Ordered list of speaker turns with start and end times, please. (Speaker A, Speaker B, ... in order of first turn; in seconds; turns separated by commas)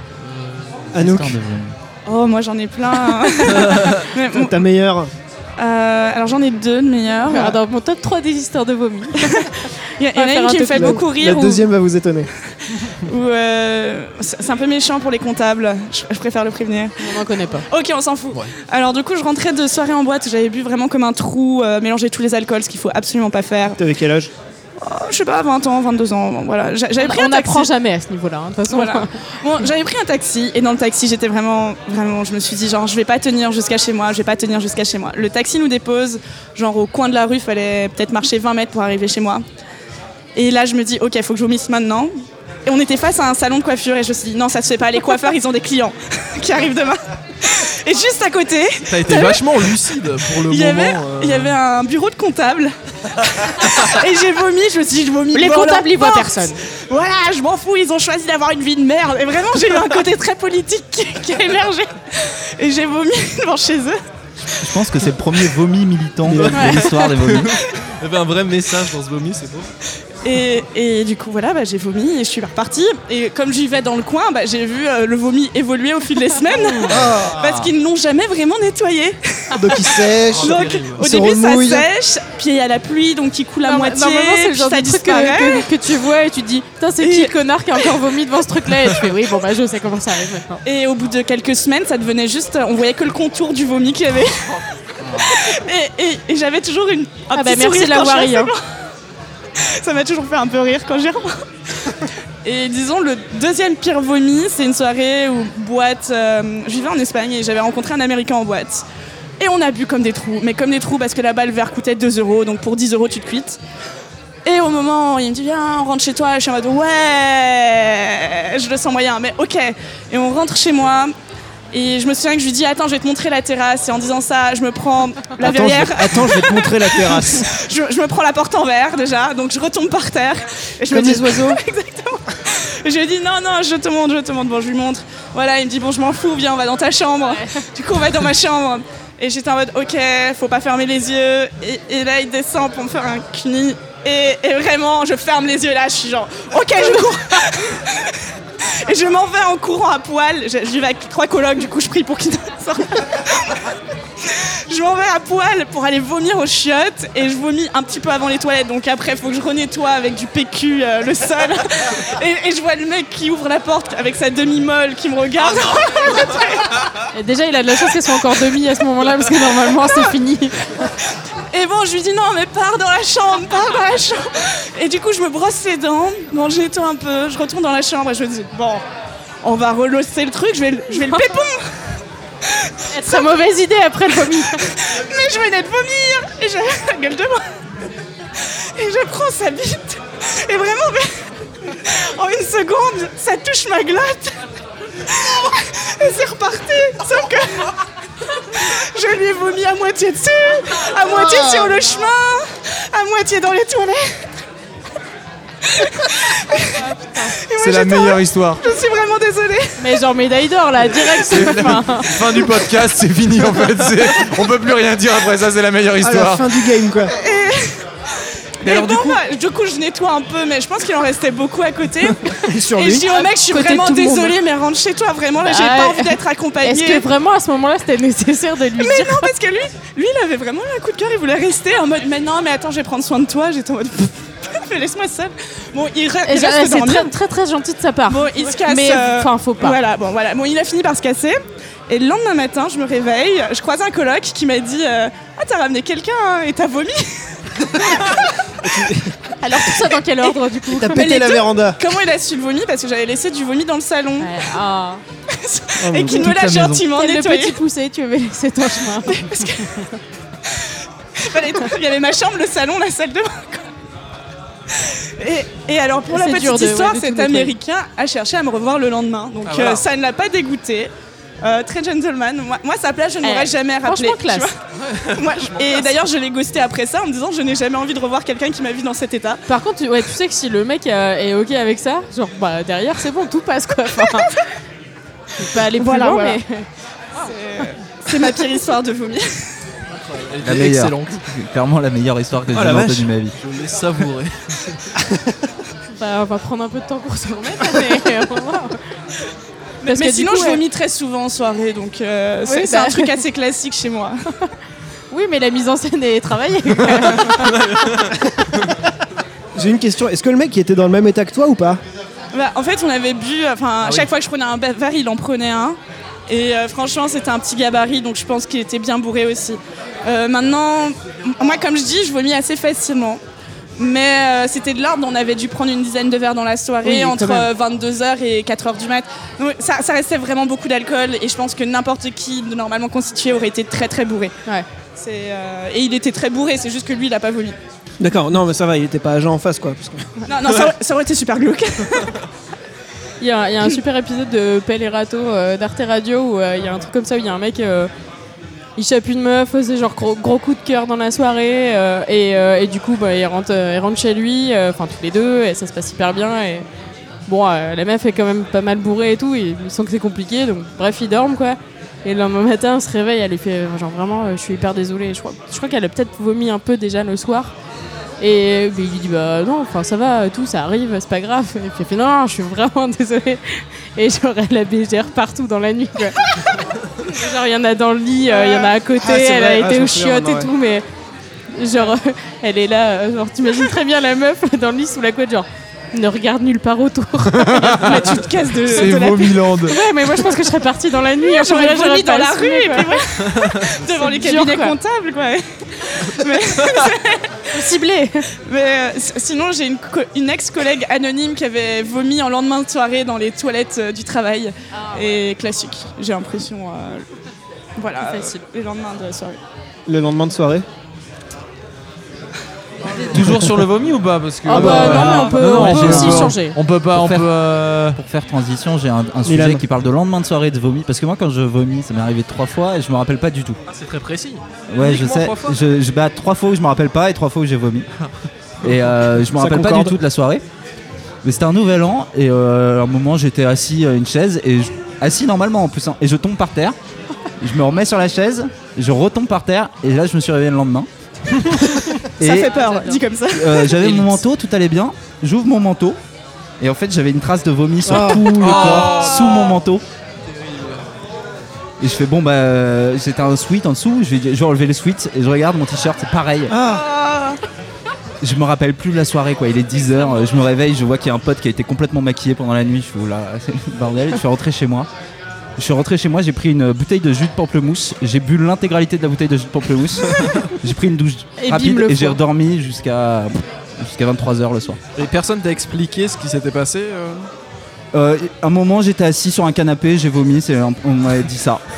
Speaker A: 0.2-0.8, Speaker B: 0.9-1.4, Speaker C: 0.9-1.8, Speaker D: 2.0-4.6, Speaker A: 3.6-3.8, Speaker B: 4.3-5.1, Speaker D: 5.6-7.6, Speaker E: 7.2-11.0, Speaker D: 9.2-11.7, Speaker B: 10.7-12.3, Speaker D: 12.9-17.2, Speaker E: 17.0-17.6, Speaker D: 17.7-23.8, Speaker B: 23.8-24.3, Speaker D: 24.8-27.7, Speaker E: 27.0-29.1, Speaker D: 28.7-39.4, Speaker D: 40.4-42.1, Speaker D: 42.6-64.0, Speaker A: 48.9-51.6, Speaker E: 55.3-56.6, Speaker C: 64.6-67.5, Speaker A: 66.3-69.7, Speaker E: 66.5-66.9, Speaker D: 70.2-85.7, Speaker A: 76.8-77.4, Speaker B: 79.5-81.9, Speaker A: 80.3-81.1, Speaker E: 83.6-90.6, Speaker D: 87.0-87.3, Speaker D: 90.7-94.6, Speaker C: 95.0-95.3, Speaker D: 95.2-98.6, Speaker E: 97.3-98.5, Speaker D: 99.6-101.4, Speaker D: 102.4-108.8, Speaker D: 109.4-113.6, Speaker D: 114.5-121.1, Speaker D: 121.7-148.2, Speaker B: 125.4-127.5, Speaker B: 130.9-131.6, Speaker E: 137.3-137.6, Speaker D: 148.8-153.7, Speaker D: 154.2-166.8, Speaker E: 167.1-170.7, Speaker D: 171.5-178.8, Speaker D: 179.4-181.6, Speaker D: 182.5-183.2, Speaker E: 182.9-184.7, Speaker D: 184.6-187.4, Speaker D: 188.4-191.1, Speaker D: 191.7-194.4, Speaker D: 195.1-197.7, Speaker D: 198.6-204.2, Speaker B: 201.4-201.7, Speaker D: 205.6-206.8, Speaker E: 206.7-207.4, Speaker D: 207.4-209.9, Speaker F: 207.6-208.6, Speaker E: 209.8-212.1, Speaker F: 211.2-216.5, Speaker B: 216.0-217.1, Speaker D: 217.2-217.8, Speaker D: 218.6-227.1, Speaker F: 218.6-219.2, Speaker B: 222.4-223.1, Speaker E: 223.1-224.3, Speaker E: 225.4-229.3, Speaker D: 228.8-237.1, Speaker E: 236.2-239.8, Speaker D: 238.1-248.2, Speaker B: 248.7-249.1, Speaker E: 249.4-251.1, Speaker B: 250.7-251.8, Speaker D: 250.9-254.4, Speaker E: 254.2-255.0, Speaker D: 255.3-257.6, Speaker B: 255.8-256.8, Speaker E: 256.9-259.8, Speaker D: 259.0-259.7, Speaker D: 260.5-263.7, Speaker D: 264.7-270.9, Speaker E: 266.1-267.5, Speaker A: 269.4-269.8, Speaker D: 271.4-274.5, Speaker E: 273.2-274.5, Speaker A: 274.8-276.0, Speaker D: 275.1-279.4, Speaker E: 279.5-284.4, Speaker E: 285.4-286.6, Speaker D: 285.7-286.4, Speaker D: 287.2-289.4, Speaker A: 289.9-291.2, Speaker C: 290.4-293.3, Speaker B: 292.5-293.1, Speaker A: 293.4-294.8, Speaker E: 295.9-298.8, Speaker D: 299.8-304.1, Speaker E: 299.8-300.6, Speaker E: 302.4-303.2, Speaker E: 305.1-307.9, Speaker A: 307.6-308.0, Speaker B: 309.5-311.8, Speaker D: 312.3-323.2, Speaker A: 313.8-314.1, Speaker D: 323.8-334.3, Speaker E: 326.8-327.5, Speaker D: 334.9-337.6, Speaker B: 338.0-340.1, Speaker D: 340.3-342.1, Speaker E: 343.2-347.9, Speaker E: 348.8-356.6, Speaker E: 357.3-367.5, Speaker E: 368.2-376.3, Speaker E: 377.0-380.8, Speaker D: 378.4-378.6, Speaker B: 379.0-380.5, Speaker E: 381.5-388.2, Speaker F: 387.2-388.0, Speaker D: 387.7-389.5, Speaker F: 388.6-389.8, Speaker E: 389.6-394.8, Speaker D: 391.2-397.4, Speaker E: 397.5-398.3, Speaker D: 398.4-407.0, Speaker E: 404.8-405.2, Speaker D: 407.8-409.4, Speaker E: 408.0-408.4, Speaker B: 409.9-410.6, Speaker F: 413.0-418.0, Speaker B: 413.2-413.5, Speaker E: 414.4-416.6, Speaker B: 414.5-415.3, Speaker C: 414.8-416.4, Speaker C: 416.9-417.3, Speaker C: 417.9-423.6, Speaker B: 419.2-419.6, Speaker A: 423.7-425.6, Speaker C: 424.7-427.9, Speaker C: 428.6-430.4, Speaker B: 429.2-429.9, Speaker C: 431.2-436.8, Speaker C: 437.4-440.9, Speaker C: 442.2-442.5, Speaker D: 442.2-443.9, Speaker E: 442.3-443.0, Speaker C: 443.3-446.0, Speaker C: 446.6-449.8, Speaker B: 447.8-448.9, Speaker A: 448.3-449.6, Speaker A: 450.2-450.8, Speaker C: 451.8-456.5, Speaker B: 456.5-456.9, Speaker D: 456.7-457.4, Speaker C: 458.2-464.9, Speaker C: 465.6-474.8, Speaker E: 471.4-472.2, Speaker A: 474.9-477.3, Speaker C: 477.9-481.6